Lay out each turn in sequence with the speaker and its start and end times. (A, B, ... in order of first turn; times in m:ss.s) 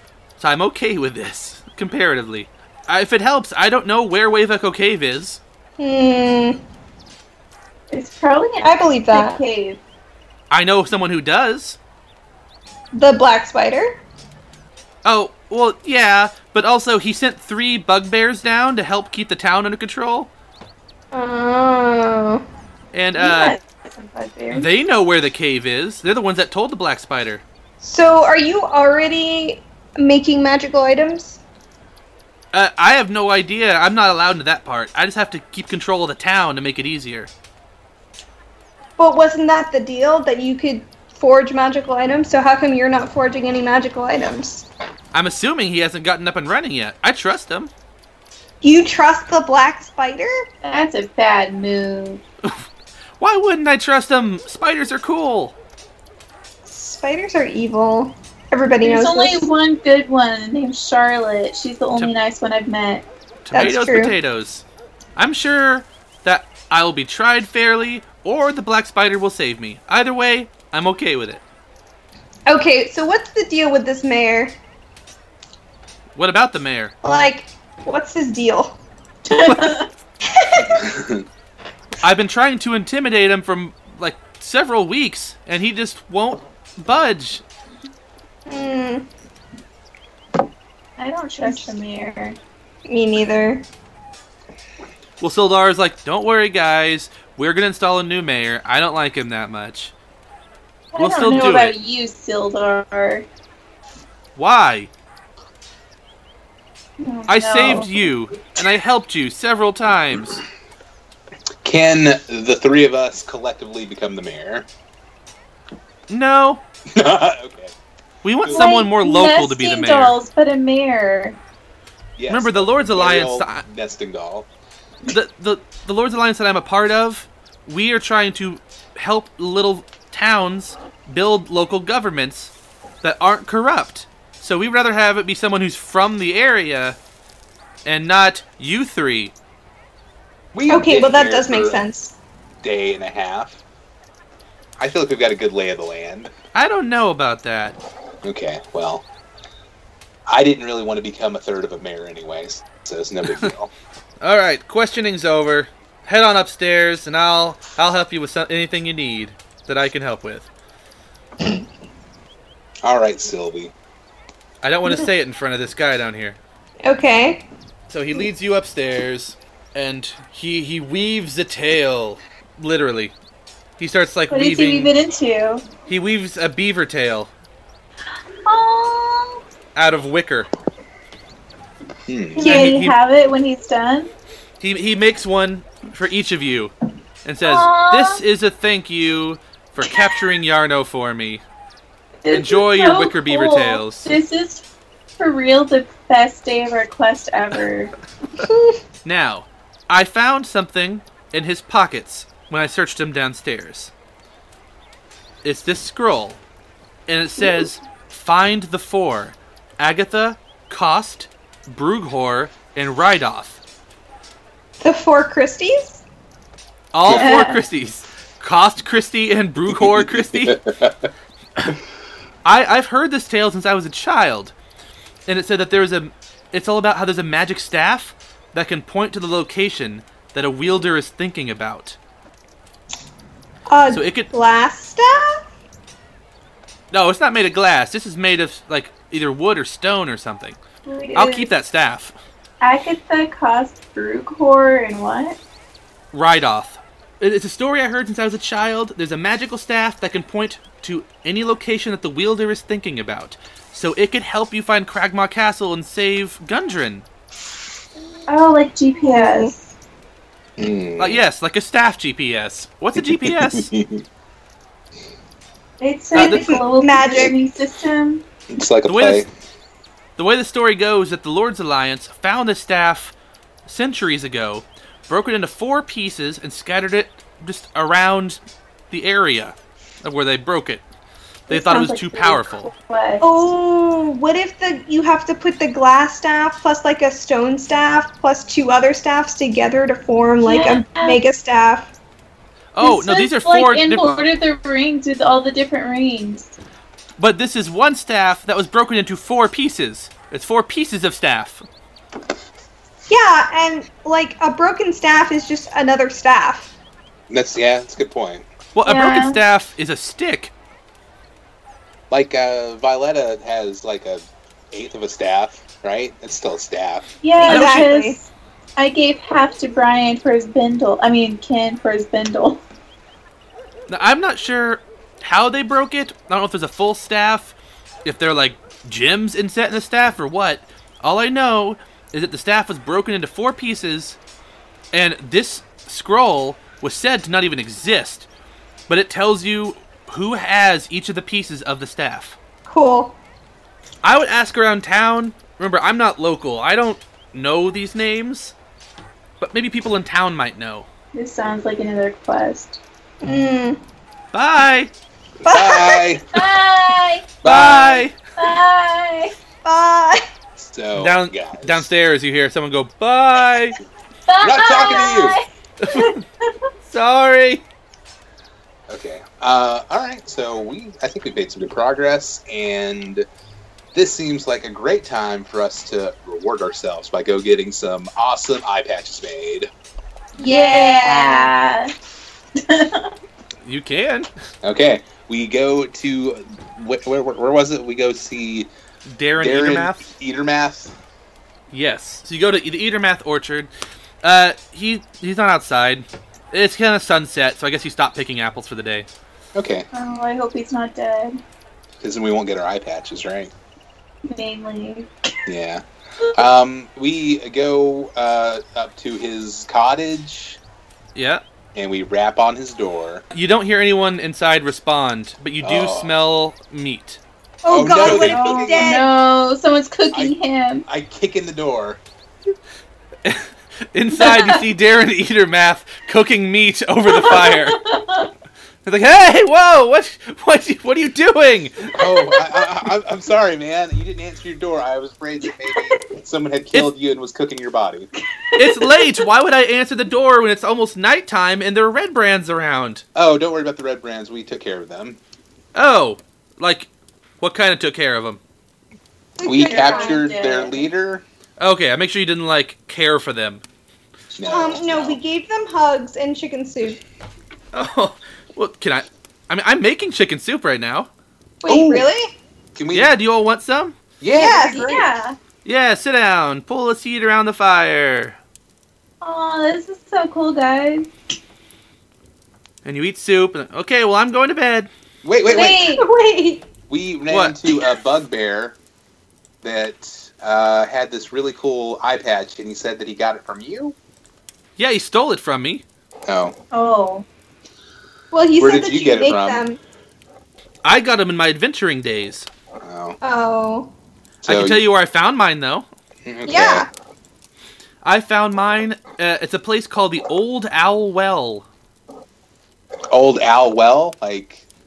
0:00.4-0:05.4 A
0:05.8-0:06.6 B
0:07.9-0:09.8 C
0:08.6-0:09.4 B
0:10.5-0:11.8 A
0:12.9-0:14.0 B
0:15.0-0:20.3 A
0:21.1-0:22.4 B
0:22.9-0:23.6 A
0:23.2-0:24.7 C
0:24.5-0:27.4 A
0:27.8-0:31.4 B
0:32.5-0:37.3 A
0:39.0-0:44.6 B
0:45.1-0:47.7 A
0:48.6-0:50.4 B
0:50.6-0:52.2 C
0:53.2-0:55.6 A
0:56.6-0:59.5 B
0:58.8-1:03.1 C
1:03.4-1:04.6 A
1:03.5-1:04.2 B
1:05.2-1:11.4 A
1:12.5-1:14.6 B
1:16.1-1:16.9 A
1:17.0-1:18.8 B
1:19.3-1:19.9 C
1:19.4-1:19.8 A
1:20.3-1:20.9 B
1:20.7-1:21.2 D
1:22.0-1:27.4 A
1:28.5-1:29.1 B
1:31.0-1:32.4 C
1:31.4-1:31.8 B
1:32.9-1:33.6 B
1:35.2-1:39.9 A
1:40.9-1:43.3 C
1:41.0-1:41.8 A
1:44.4-1:44.9 A
1:47.0-1:48.1 C
1:47.3-1:50.4 A
1:51.6-1:54.7 D
1:56.1-1:56.6 A
1:56.9-1:57.7 D
1:58.2-2:00.2 A
1:58.4-1:58.7 D
1:58.5-2:01.4 C
2:02.2-2:04.5 D
2:02.3-2:03.6 A
2:05.1-2:17.0 A
2:17.8-2:19.3 A
2:20.5-2:21.8 D
2:20.7-2:22.1 B
2:22.6-2:23.6 D
2:24.8-2:26.3 D
2:26.5-2:27.8 A
2:28.2-2:29.0 D
2:30.3-2:33.7 D
2:34.2-2:40.5 A
2:42.8-2:43.7 D
2:44.6-2:46.4 A
2:46.8-2:47.5 B
2:47.9-2:53.1 A
2:53.8-2:54.9 A
2:54.3-2:55.6 C
2:55.9-2:57.3 A
2:58.4-2:59.4 C
2:59.8-3:00.5 A
3:02.1-3:02.5 D
3:02.4-3:04.1 C
3:02.4-3:03.0 A
3:02.4-3:02.7 B
3:04.6-3:06.7 A
3:07.2-3:11.4 A
3:07.4-3:08.2 C
3:12.2-3:14.6 C
3:12.3-3:14.1 A
3:15.2-3:17.9 C
3:18.4-3:18.8 B
3:19.0-3:23.9 A
3:25.4-3:26.4 A
3:27.1-3:33.6 A
3:34.8-3:36.0 B
3:36.9-3:40.6 A
3:37.1-3:37.6 C
3:39.7-3:41.1 D
3:42.4-3:44.5 A
3:45.3-3:52.0 A
3:53.7-3:55.4 B
3:53.9-3:54.3 A
3:56.9-4:00.6 A
4:00.9-4:01.5 C
4:01.1-4:02.2 A
4:02.6-4:05.4 C
4:06.1-4:17.1 A
4:18.3-4:19.7 C
4:19.1-4:19.5 B
4:20.6-4:21.2 D
4:21.0-4:23.7 A
4:23.0-4:24.0 D
4:25.8-4:28.2 C
4:26.1-4:27.4 B
4:26.2-4:26.4 A
4:28.5-4:29.3 D
4:28.9-4:29.3 A
4:30.2-4:33.1 A
4:33.6-4:40.8 A
4:41.5-4:42.7 A
4:41.5-4:43.4 C
4:43.2-4:51.9 B
4:50.4-4:51.2 C
4:52.7-4:54.2 A
4:52.8-4:56.6 C
4:57.2-5:01.6 A
5:03.1-5:06.7 B
5:07.3-5:08.4 D
5:08.7-5:10.5 A
5:08.8-5:09.4 C
5:12.1-5:17.1 D
5:17.2-5:22.6 C
5:17.4-5:18.2 B
5:17.4-5:18.0 A
5:23.9-5:27.5 A
5:28.0-5:34.2 A
5:34.9-5:38.3 A
5:38.9-5:42.4 A
5:42.7-5:43.2 B
5:44.0-5:48.5 A
5:49.4-5:50.9 A
5:51.1-5:52.8 C
5:53.2-5:53.8 B
5:54.3-5:54.9 A
5:55.4-5:56.1 B
5:55.5-5:56.4 D
5:56.3-5:57.3 C
5:57.4-5:58.1 D
5:57.4-5:58.2 A
5:58.4-5:59.4 C
5:59.6-6:00.2 B
6:00.6-6:01.9 D
6:01.0-6:03.8 A
6:04.3-6:06.5 C
6:04.4-6:05.4 D
6:05.8-6:06.2 A
6:06.9-6:07.6 A
6:08.9-6:13.3 D
6:13.9-6:19.7 D
6:20.4-6:21.5 B
6:20.4-6:21.9 C
6:22.6-6:23.1 C
6:23.6-6:24.3 A
6:24.6-6:28.7 D
6:29.1-6:30.1 A
6:29.4-6:30.9 D
6:31.7-6:33.7 A
6:34.2-6:39.1 A
6:39.6-6:39.9 D
6:39.9-6:41.4 C
6:42.0-6:43.5 D
6:44.3-6:45.1 C
6:45.5-6:50.6 D
6:51.1-6:51.4 A
6:51.8-6:53.2 D
6:53.3-6:57.2 A
6:55.6-6:56.1 D
6:57.6-6:59.1 B
6:57.7-6:59.0 D
6:58.0-7:00.9 C
7:00.9-7:02.0 D
7:03.2-7:07.8 A
7:04.1-7:04.6 C
7:07.1-7:08.3 C
7:08.8-7:11.9 A
7:11.9-7:18.1 D
7:12.0-7:12.7 C
7:18.4-7:19.2 C
7:18.6-7:23.0 A
7:23.1-7:25.2 D
7:25.8-7:26.9 A
7:27.4-7:28.4 A
7:29.4-7:30.2 B
7:29.4-7:31.2 D
7:29.5-7:30.9 C
7:31.6-7:33.6 A
7:34.3-7:35.2 D
7:34.4-7:37.0 B
7:37.7-7:41.1 A
7:41.6-7:42.3 B
7:41.6-7:42.1 D
7:42.8-7:43.1 D
7:42.9-7:44.0 A
7:44.2-7:44.9 D
7:44.3-7:45.2 B
7:44.4-7:45.4 C
7:45.6-7:48.4 A
7:49.2-7:51.1 C
7:52.8-7:54.9 A
7:55.2-7:55.9 D
7:55.5-7:56.1 C
7:55.5-7:56.7 B
7:56.9-7:58.8 D
7:57.3-7:57.6 A
7:59.6-8:04.0 D
8:04.8-8:05.8 A
8:06.3-8:06.6 D
8:06.7-8:07.2 C
8:08.3-8:09.8 B
8:08.6-8:09.6 D
8:10.8-8:12.5 A
8:12.8-8:13.2 D
8:13.2-8:13.9 B
8:14.4-8:14.8 D
8:14.5-8:15.9 A
8:16.2-8:16.9 D
8:16.5-8:16.9 B
8:18.0-8:21.7 A
8:23.1-8:24.6 D